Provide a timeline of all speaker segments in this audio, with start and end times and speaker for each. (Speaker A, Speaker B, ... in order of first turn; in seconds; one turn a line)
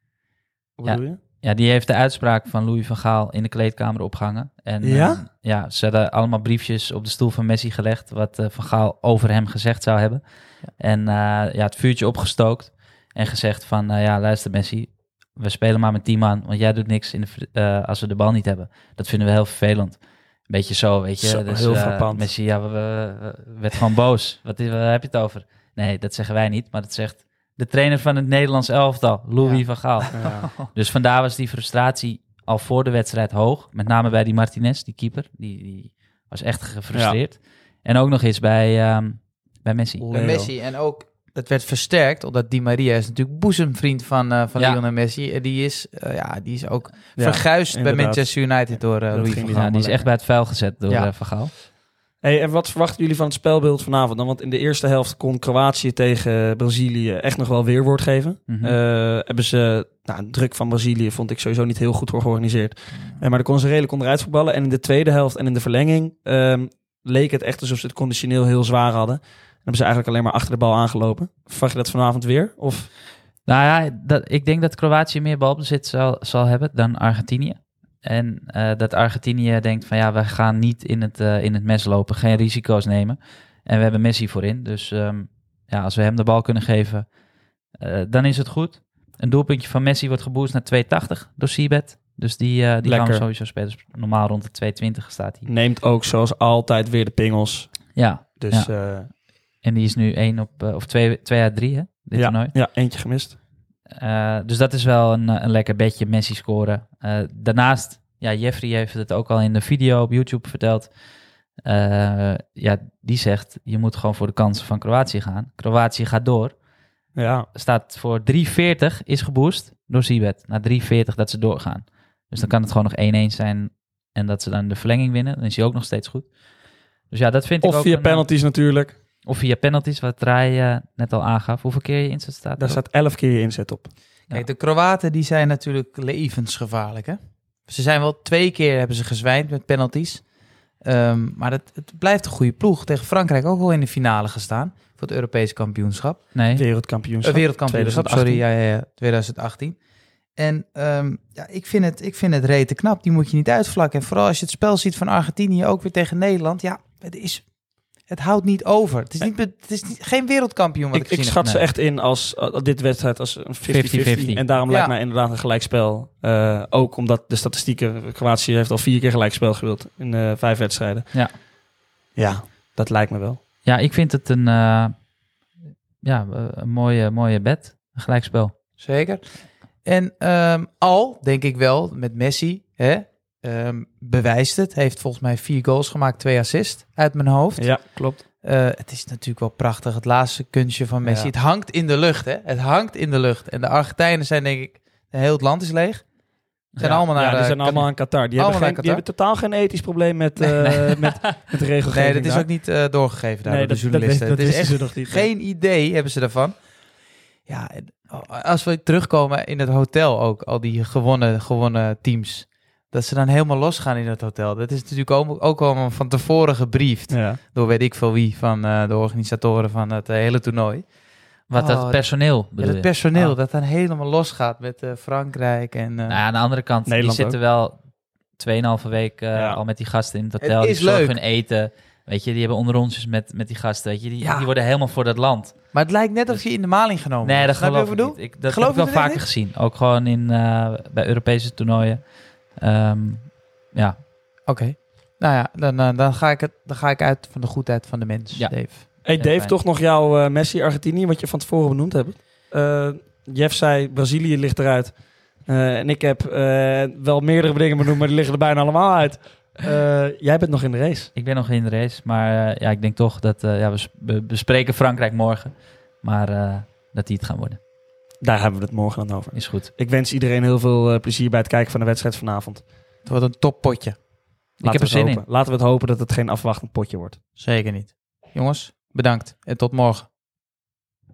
Speaker A: 0.8-1.2
Speaker B: 0.9-40.1
Speaker A: 4.8-5.2
Speaker A: 21.2-22.3
Speaker C: 29.4-30.7
Speaker A: 30.1-30.4
Speaker A: 36.9-37.2
Speaker A: 40.1-40.5
Speaker C: 40.1-50.1
Speaker A: 47.2-48.4
Speaker A: 49.1-49.8
Speaker B: 49.5-51.5
Speaker A: 52.2-72.9
Speaker B: 58.5-58.8
Speaker B: 73.5-87.1
Speaker B: 87.8-95.5
Speaker A: 92.8-93.2
Speaker A: 95.5-99.1
Speaker B: 98.0-98.7
Speaker B: 99.6-102.6
Speaker A: 102.2-103.4
Speaker B: 104.0-110.9
Speaker B: 111.7-116.5
Speaker A: 117.2-117.5
Speaker B: 117.5-126.3
Speaker B: 127.1-128.3
Speaker A: 127.6-128.9
Speaker B: 129.3-132.8
Speaker A: 132.6-133.9
Speaker C: 134.3-140.2
Speaker C: 140.8-146.2
Speaker B: 146.3-146.6
Speaker A: 146.5-148.4
Speaker C: 147.2-149.8
Speaker C: 150.4-157.5
Speaker C: 158.1-161.4
Speaker A: 160.9-171.1
Speaker B: 161.4-161.7
Speaker B: 163.7-164.4
Speaker C: 164.7-164.9
Speaker A: 172.2-173.4
Speaker B: 173.7-174.9
Speaker B: 176.0-178.5
Speaker C: 178.8-179.2
Speaker C: 179.8-187.9
Speaker A: 187.6-188.2
Speaker C: 188.4-196.1
Speaker B: 196.8-197.0
Speaker C: 196.8-199.0
Speaker A: 196.8-202.5
Speaker B: 200.8-201.1
Speaker C: 201.9-206.6
Speaker A: 203.4-205.3
Speaker C: 207.5-220.8
Speaker A: 217.1-217.4
Speaker B: 221.5-223.3
Speaker C: 221.5-226.2
Speaker B: 226.1-227.8
Speaker A: 226.9-227.4
Speaker B: 228.4-235.7
Speaker A: 229.3-229.6
Speaker C: 230.4-231.2
Speaker C: 234.2-234.5
Speaker C: 235.7-239.3
Speaker B: 237.2-242.0
Speaker B: 242.6-244.0
Speaker C: 244.5-248.8
Speaker B: 248.3-249.6
Speaker A: 249.1-261.1
Speaker B: 261.1-267.6
Speaker A: 268.2-272.6
Speaker B: 269.3-269.7
Speaker C: 273.1-274.0
Speaker A: 274.6-277.2
Speaker B: 274.6-275.2
Speaker C: 277.4-280.1